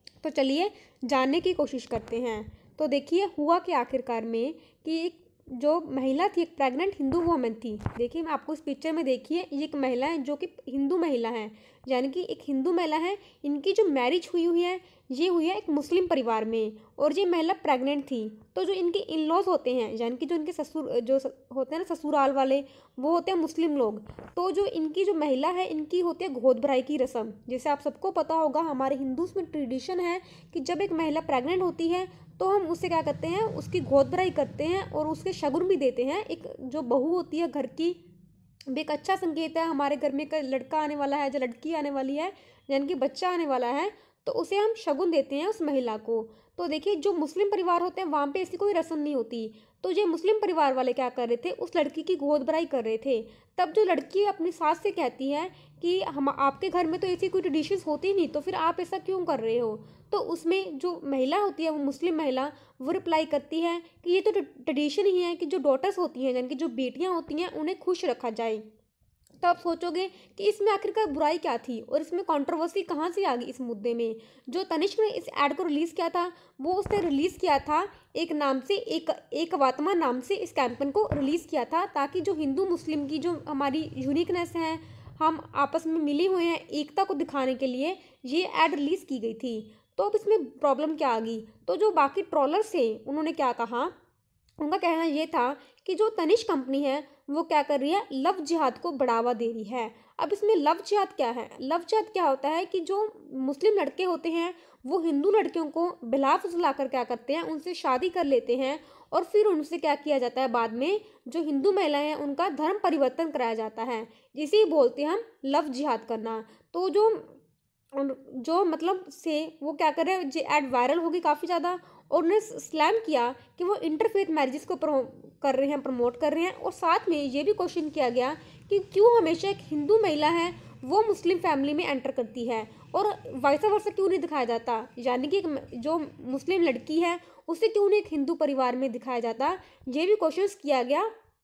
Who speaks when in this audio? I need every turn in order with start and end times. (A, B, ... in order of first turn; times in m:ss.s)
0:00.2-0:38.0 A
0:38.7-1:08.6 A
1:09.4-1:33.9 A
1:34.6-1:57.3 A
1:57.9-2:21.1 A